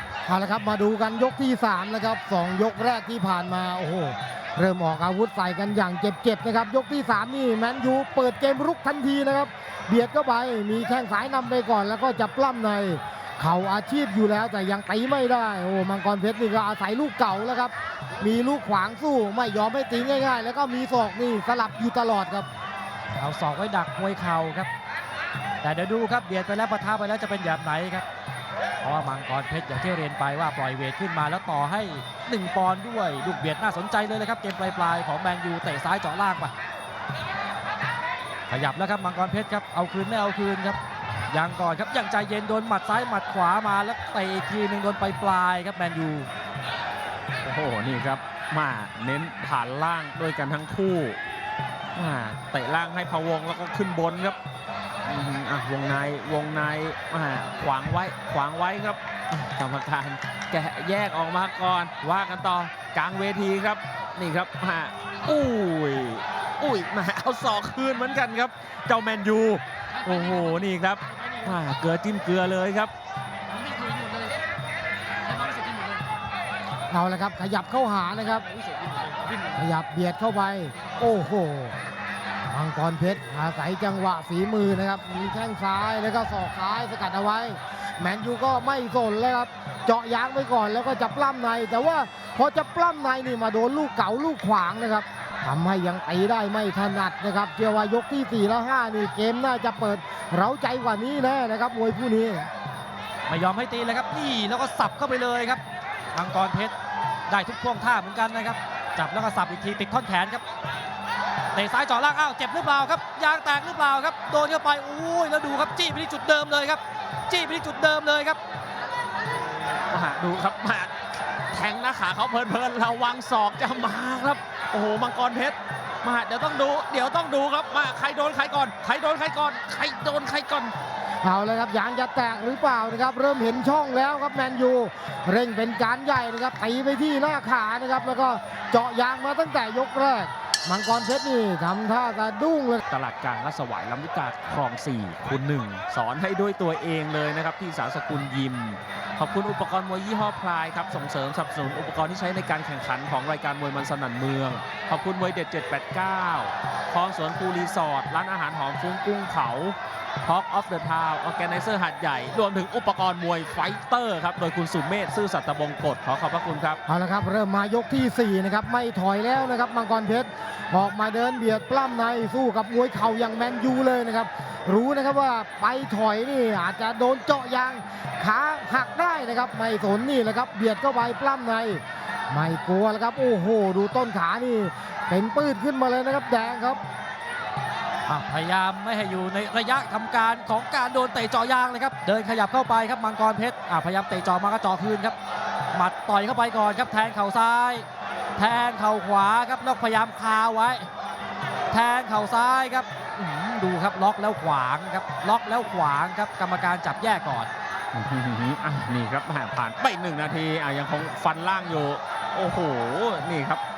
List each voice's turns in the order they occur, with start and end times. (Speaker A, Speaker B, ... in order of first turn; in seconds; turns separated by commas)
Speaker A: 0.3-22.5, Speaker B: 23.2-24.7, Speaker B: 25.6-28.1, Speaker B: 28.8-36.5, Speaker B: 38.5-40.8, Speaker B: 41.3-46.3, Speaker C: 47.4-51.2, Speaker C: 52.0-54.4, Speaker C: 55.1-72.9, Speaker B: 70.3-70.6, Speaker B: 73.5-74.4, Speaker B: 75.3-76.0, Speaker A: 76.9-78.5, Speaker A: 79.5-81.8, Speaker A: 82.5-102.5, Speaker B: 103.3-105.6, Speaker B: 106.1-106.8, Speaker B: 107.3-110.4, Speaker B: 111.5-118.4, Speaker C: 119.9-120.9, Speaker C: 121.5-130.7, Speaker A: 131.2-142.8, Speaker C: 142.9-166.8, Speaker A: 166.9-186.8, Speaker B: 188.1-195.2, Speaker B: 195.7-200.9, Speaker B: 201.7-207.5, Speaker C: 207.9-213.6